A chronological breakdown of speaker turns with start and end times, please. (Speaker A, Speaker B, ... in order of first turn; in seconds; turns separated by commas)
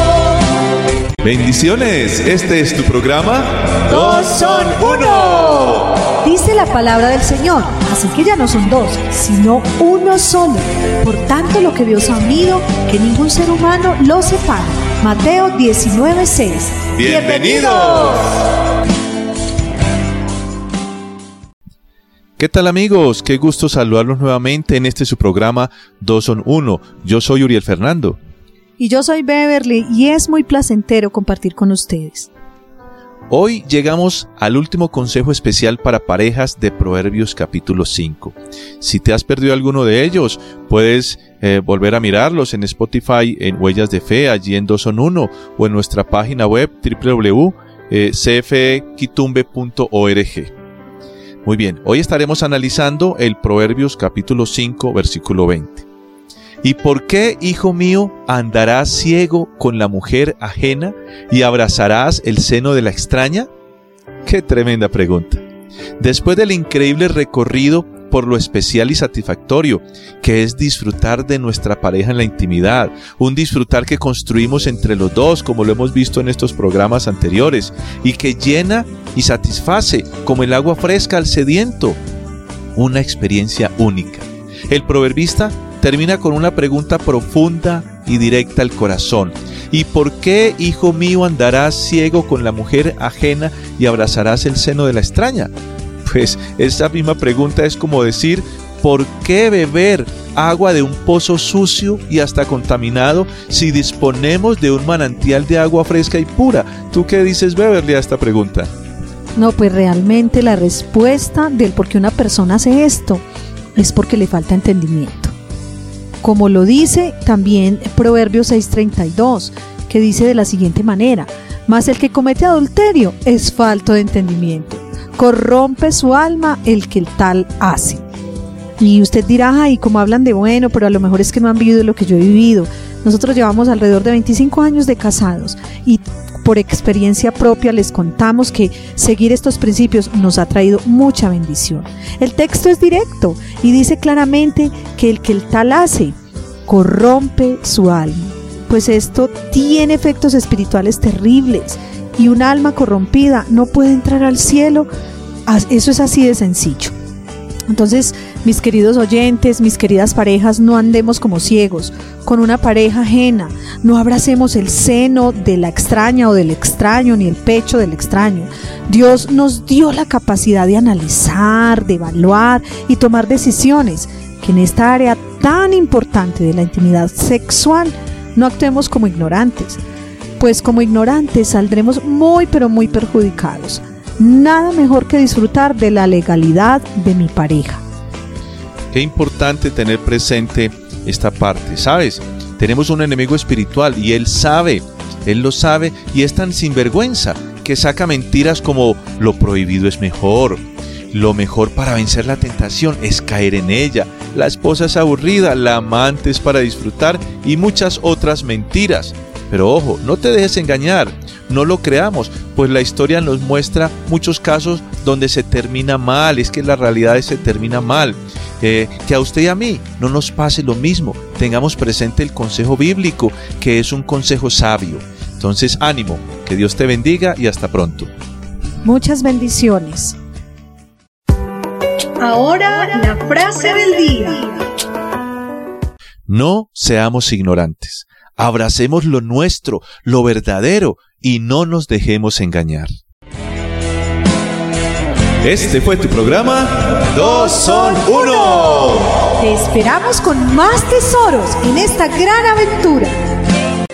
Speaker A: 1.2-5.9, Speaker B: 3.9-18.3, Speaker A: 16.9-18.3, Speaker A: 22.4-28.2, Speaker B: 28.8-32.3, Speaker A: 33.3-50.5, Speaker A: 51.5-55.9, Speaker A: 56.6-63.5, Speaker A: 64.2-65.4, Speaker A: 66.0-82.0, Speaker A: 82.8-95.5, Speaker A: 96.0-108.7, Speaker B: 109.4-113.2, Speaker B: 113.8-115.3, Speaker B: 116.2-128.0, Speaker B: 128.8-146.2, Speaker B: 146.7-154.9, Speaker B: 155.5-156.9, Speaker B: 157.7-179.8, Speaker B: 180.4-187.8, Speaker A: 188.9-228.1, Speaker B: 228.8-230.2, Speaker B: 232.2-234.6, Speaker A: 236.3-242.9, Speaker A: 245.4-249.1, Speaker B: 249.4-253.2